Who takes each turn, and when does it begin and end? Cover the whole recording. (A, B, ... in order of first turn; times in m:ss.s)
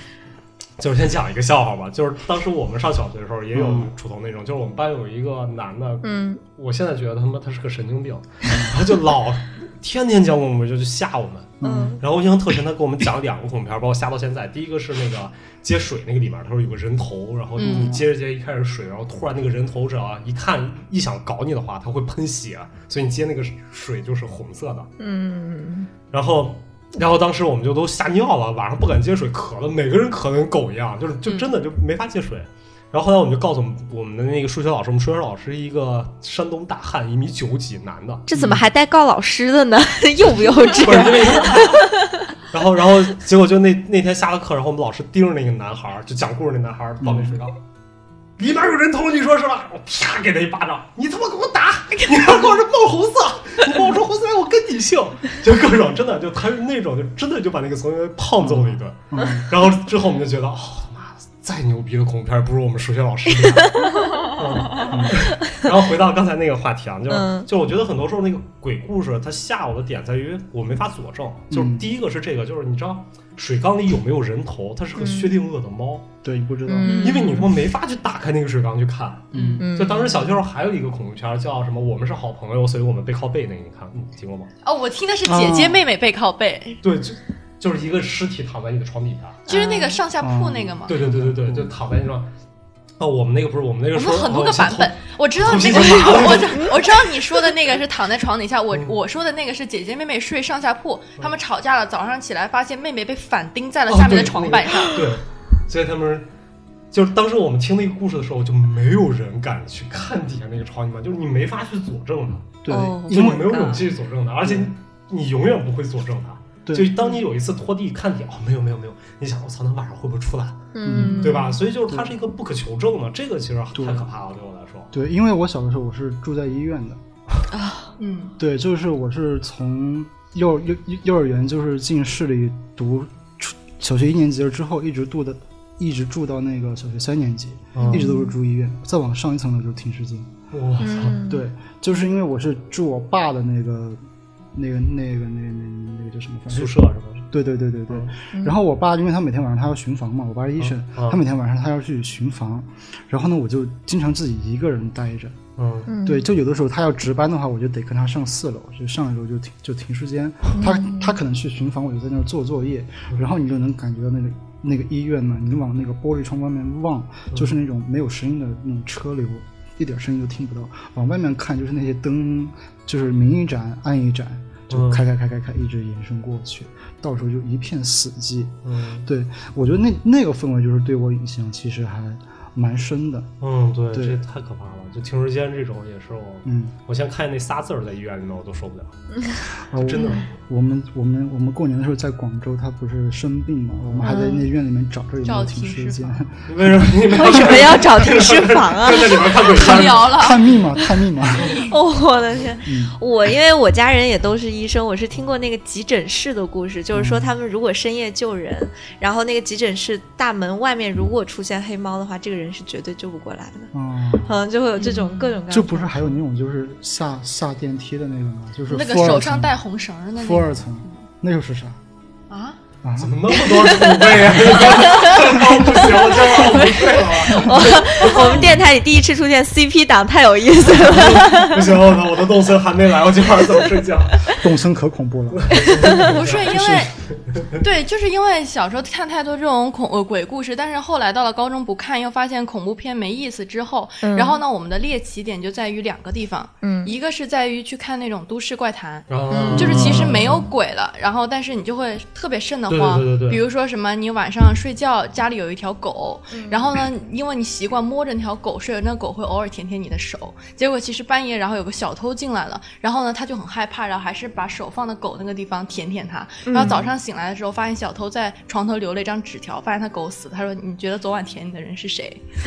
0:00.8-0:24.9 A
0:03.5-0:03.9 B
0:06.0-0:06.4 C
0:11.6-0:12.0 B
0:11.6-0:12.0 C
0:17.6-0:17.9 D
0:17.6-0:18.1 B
0:25.0-0:25.9 C
0:26.1-0:38.2 A
0:31.2-0:31.5 D
0:38.3-0:42.1 C
0:38.3-0:38.6 B
0:40.6-0:41.8 A
0:42.5-0:47.6 A
0:47.0-0:47.4 B
0:48.4-1:16.1 A
0:58.4-0:59.5 B
1:03.4-1:04.3 C
1:04.9-1:05.2 B
1:07.1-1:07.5 C
1:11.5-1:11.9 B
1:15.0-1:15.4 C
1:16.2-1:17.0 B
1:16.7-1:17.5 C
1:16.8-1:17.4 D
1:16.9-1:24.5 A
1:19.3-1:19.6 D
1:19.3-1:19.6 B
1:19.6-1:20.3 C
1:24.6-1:26.8 D
1:25.2-1:25.8 B
1:26.8-1:29.4 A
1:29.5-1:31.0 D
1:29.5-1:30.0 C
1:30.2-1:31.7 B
1:30.9-1:32.3 A
1:33.0-1:36.8 A
1:33.9-1:45.0 D
1:43.9-1:46.3 A
1:46.9-1:52.6 A
1:52.6-1:53.7 B
1:52.7-1:53.8 C
1:53.1-2:04.9 A
1:56.6-1:57.0 B
2:00.7-2:01.6 C
2:00.8-2:02.1 B
2:03.7-2:04.0 B
2:04.9-2:07.0 B
2:07.5-2:07.9 C
2:08.0-2:08.4 D
2:08.4-2:20.3 B
2:17.7-2:18.0 A
2:17.8-2:18.3 C
2:20.5-2:21.3 A
2:20.8-2:21.4 C
2:21.2-2:24.0 B
2:24.5-2:26.8 B
2:26.5-2:27.2 A
2:27.3-2:35.4 B
2:27.9-2:28.1 A
2:30.6-2:31.2 A
2:35.6-2:35.9 A
2:35.9-2:36.3 C
2:36.0-3:03.3 B
2:40.6-2:41.2 C
2:54.7-2:55.0 A
2:58.6-2:59.1 A
3:03.4-3:09.0 A
3:03.9-3:04.2 B
3:06.4-3:06.7 B
3:09.6-3:10.3 A
3:09.7-3:17.5 B
3:13.8-3:14.2 A
3:14.0-3:14.4 C
3:15.2-3:16.2 D
3:16.5-3:20.2 A
3:17.1-3:20.0 C
3:19.3-3:20.6 D
3:20.0-3:21.5 B
3:21.3-3:21.7 D
3:21.5-3:36.1 C
3:22.6-3:23.0 B
3:26.9-3:27.3 B
3:33.7-3:34.3 B
3:34.8-3:35.4 D
3:35.5-3:39.5 B
3:38.7-3:41.0 D
3:40.2-3:41.8 B
3:42.3-3:42.6 D
3:42.8-3:43.4 B
3:43.0-3:48.6 A
3:43.5-3:44.1 C
3:44.2-3:44.6 B
3:44.6-3:45.3 C
3:46.3-3:51.7 C
3:50.7-3:54.4 A
3:54.3-3:56.9 B
3:55.3-3:56.6 A
3:55.6-3:56.1 C
3:56.0-3:56.9 D
3:57.3-3:57.6 A
3:57.6-4:32.2 D
4:04.0-4:04.4 C
4:06.6-4:06.9 C
4:09.1-4:10.4 A
4:09.3-4:10.0 C
4:09.5-4:10.2 B
4:12.7-4:13.4 A
4:16.3-4:16.6 C
4:26.4-4:26.8 C